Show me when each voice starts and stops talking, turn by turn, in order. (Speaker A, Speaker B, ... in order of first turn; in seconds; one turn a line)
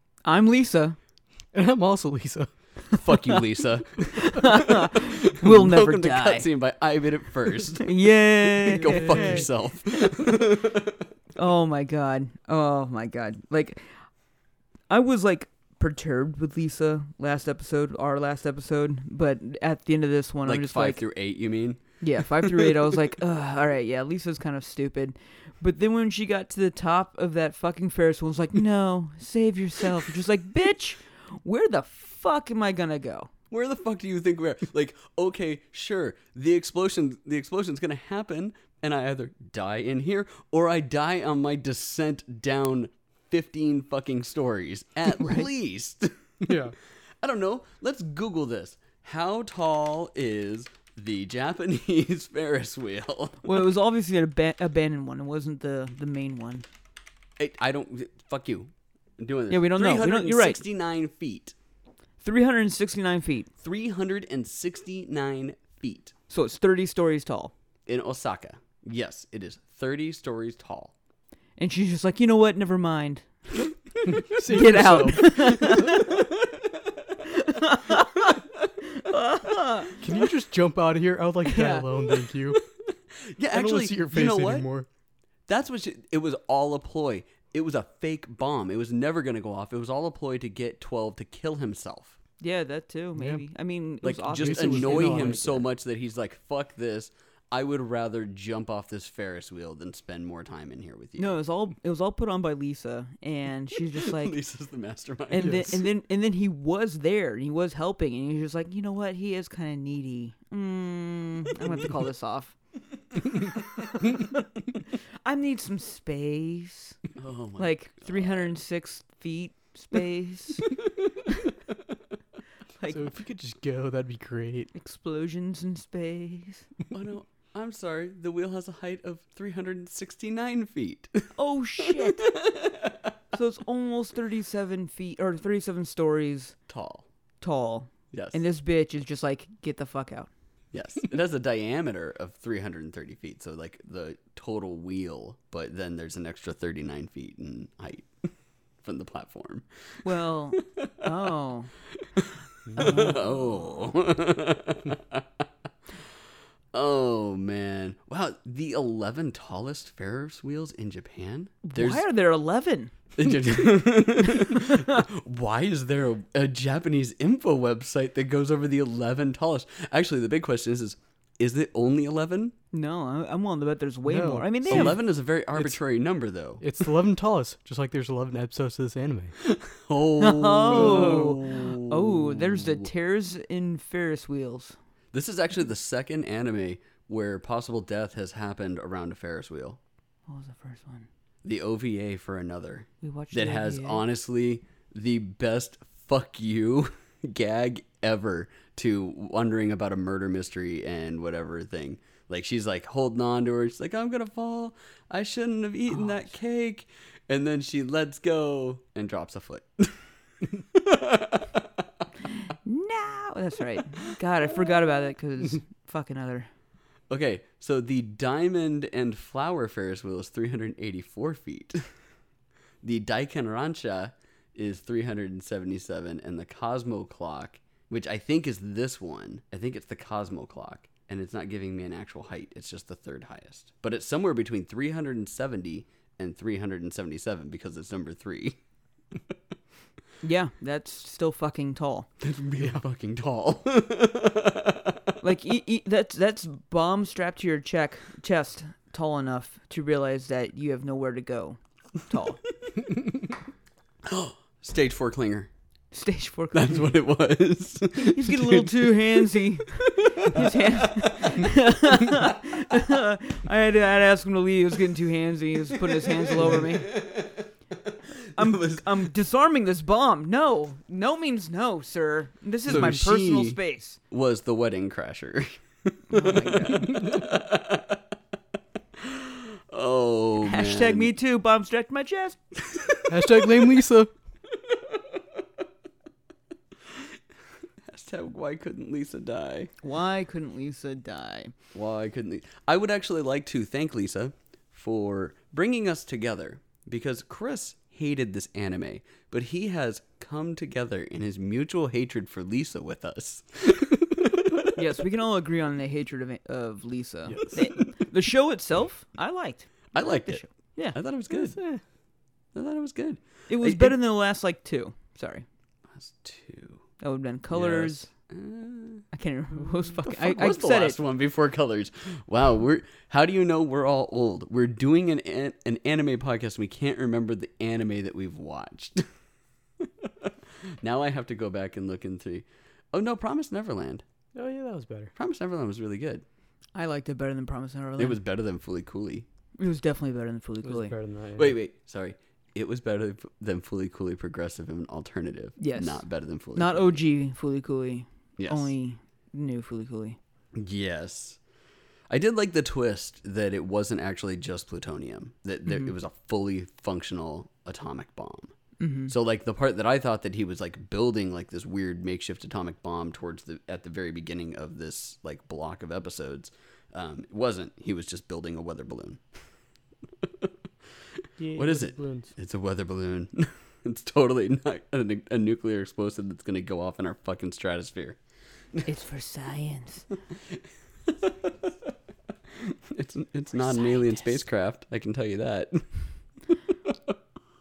Speaker A: 0.2-1.0
Speaker B: 1.5-2.5
Speaker C: 2.9-11.1
Speaker A: 4.1-6.5
Speaker A: 7.8-9.5
Speaker B: 8.7-9.5
Speaker A: 11.3-13.9
Speaker A: 14.9-21.0
Speaker C: 20.4-23.1
Speaker A: 22.0-33.3
Speaker C: 33.5-46.5
Speaker A: 45.2-45.5
Speaker B: 46.4-46.8
Speaker C: 47.2-53.6
Speaker A: 53.4-56.6
Speaker C: 57.4-61.5
Speaker A: 59.5-60.6
Speaker A: 62.2-63.5
Speaker C: 63.6-66.1
Speaker A: 66.3-67.5
Speaker C: 67.8-70.9
Speaker A: 71.6-73.6
Speaker B: 74.1-76.0
Speaker A: 74.4-76.3
Speaker A: 77.2-80.0
Speaker B: 80.0-82.6
Speaker A: 81.4-81.9
Speaker C: 83.3-84.7
Speaker B: 83.5-84.9
Speaker C: 85.5-92.2
Speaker A: 92.4-95.7
Speaker B: 93.2-93.4
Speaker C: 94.0-101.4
Speaker B: 94.3-95.4
Speaker A: 101.2-104.4
Speaker C: 104.0-105.7
Speaker A: 105.3-112.5
Speaker B: 105.4-105.8
Speaker C: 113.4-113.8
Speaker A: 113.9-114.4
Speaker A: 114.9-117.0
Speaker C: 117.2-118.5
Speaker A: 117.6-120.7
Speaker A: 122.8-123.1
Speaker B: 122.9-124.7
Speaker A: 124.7-126.7
Speaker C: 126.9-133.1
Speaker A: 131.3-132.3
Speaker A: 133.3-136.6
Speaker C: 136.7-137.1
Speaker A: 137.4-140.3
Speaker C: 138.1-138.4
Speaker C: 140.7-148.1
Speaker C: 148.8-151.1
Speaker A: 150.0-151.7
Speaker C: 152.0-155.4
Speaker A: 152.8-153.1
Speaker C: 156.7-162.1
Speaker A: 161.6-162.9
Speaker C: 163.2-172.5
Speaker A: 164.2-165.0
Speaker A: 172.7-174.9
Speaker B: 174.1-175.0
Speaker C: 174.7-176.6
Speaker B: 176.6-179.3
Speaker C: 179.4-182.9
Speaker A: 180.2-184.8
Speaker B: 180.7-181.3
Speaker C: 185.1-189.8
Speaker A: 190.3-191.1
Speaker C: 191.4-212.0
Speaker A: 193.0-194.0
Speaker A: 212.6-216.5
Speaker C: 217.1-221.9
Speaker C: 222.8-238.6
Speaker A: 240.2-242.1
Speaker C: 242.2-245.1
Speaker A: 245.2-252.4
Speaker C: 254.0-255.5
Speaker A: 255.9-256.9
Speaker C: 256.5-259.2
Speaker A: 257.9-266.9
Speaker C: 259.8-261.5
Speaker C: 265.7-268.9
Speaker A: 268.3-274.0
Speaker C: 272.7-273.6
Speaker C: 274.1-278.0
Speaker A: 276.1-277.0
Speaker C: 279.0-281.1
Speaker A: 280.4-282.4
Speaker C: 282.7-283.6
Speaker B: 283.1-284.1
Speaker C: 284.5-285.4
Speaker C: 286.9-287.1
Speaker C: 287.8-289.7
Speaker A: 289.8-291.5
Speaker C: 291.7-304.7
Speaker A: 304.7-311.0
Speaker B: 307.2-307.6
Speaker C: 309.9-311.6
Speaker B: 311.3-311.8
Speaker C: 312.5-313.9
Speaker A: 313.5-315.4
Speaker C: 315.9-316.8
Speaker A: 317.0-318.1
Speaker C: 317.5-319.1
Speaker A: 319.1-321.0
Speaker C: 319.9-329.1
Speaker C: 329.8-334.0
Speaker B: 334.3-335.1
Speaker C: 335.1-336.2
Speaker A: 336.7-338.2
Speaker C: 338.0-339.2
Speaker A: 339.6-340.9
Speaker B: 340.6-341.5
Speaker C: 341.3-347.0
Speaker A: 345.6-350.2
Speaker C: 348.4-348.7
Speaker C: 350.5-351.4
Speaker C: 352.1-358.5
Speaker A: 358.8-359.1
Speaker C: 359.1-369.2
Speaker C: 370.2-370.5
Speaker B: 371.4-372.3
Speaker C: 371.5-378.2
Speaker A: 378.9-380.1
Speaker C: 380.5-381.7
Speaker C: 382.5-386.0
Speaker A: 383.6-384.4